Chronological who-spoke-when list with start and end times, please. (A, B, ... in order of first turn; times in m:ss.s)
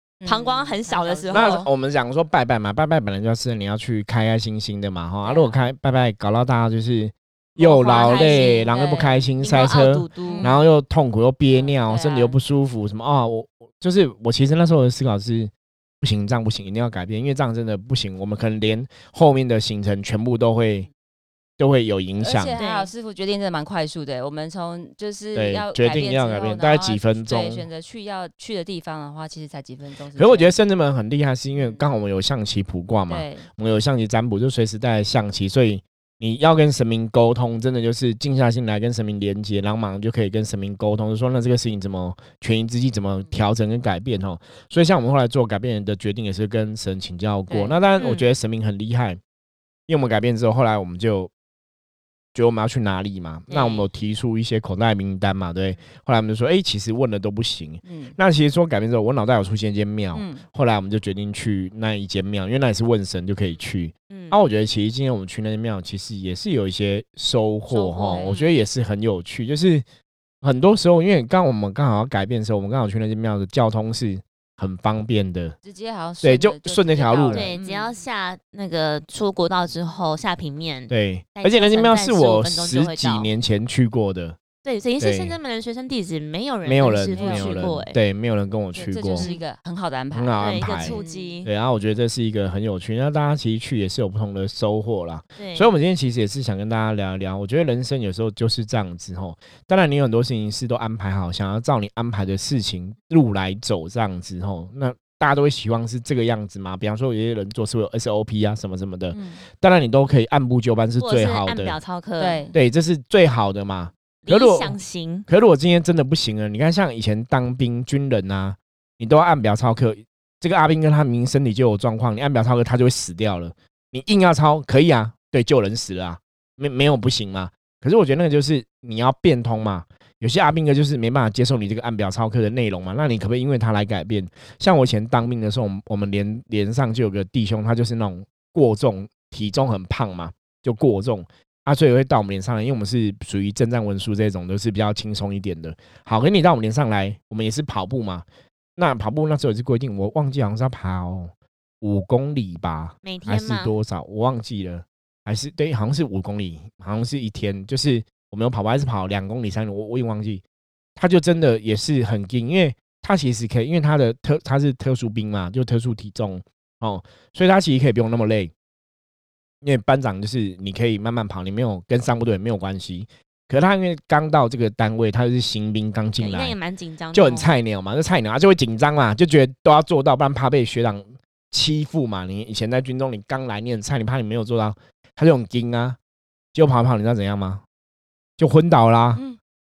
0:00.2-0:01.7 A
0:00.2-0:01.6 B
0:01.3-0:20.9 C
0:05.2-0:05.5 A
0:07.6-0:08.7 B
0:07.6-0:09.3 A
0:09.4-0:10.5 B
0:10.2-0:10.6 A
0:11.5-0:12.4 A
0:21.6-0:22.6 C
0:22.2-0:30.5 A
0:22.6-0:22.9 B
0:25.3-0:27.6 C
0:30.2-0:49.2 C
0:31.6-0:31.8 A
0:33.1-0:33.5 A
0:47.5-0:47.8 A
0:48.0-0:48.2 B
0:49.9-0:51.3 C
0:52.3-1:09.8 C
0:53.5-0:53.8 B
0:57.8-0:58.2 A
1:00.1-1:00.4 A
1:04.1-1:04.4 B
1:07.7-1:08.4 A
1:08.0-1:08.4 B
1:10.4-1:15.5 C
1:15.6-1:18.0 A
1:16.2-1:17.5 C
1:17.3-1:23.3 B
1:20.9-1:24.4 C
1:24.6-1:28.0 B
1:25.0-1:25.4 C
1:26.6-1:29.3 C
1:27.1-1:27.6 A
1:28.7-1:31.3 A
1:29.2-1:29.4 B
1:30.1-1:51.8 C
1:30.4-1:31.5 B
1:35.4-1:35.7 B
1:49.1-1:49.4 A
1:51.0-1:52.4 B
1:52.2-1:52.5 A
1:52.5-1:54.8 C
1:54.2-1:55.3 B
1:55.3-2:28.2 C
2:28.8-2:40.4 C
2:33.0-2:33.7 B
2:41.0-2:48.5 C
2:49.6-2:56.6 C
2:56.2-2:57.5 B
2:57.1-3:06.0 C
3:06.5-3:07.6 C
3:08.4-3:09.2 C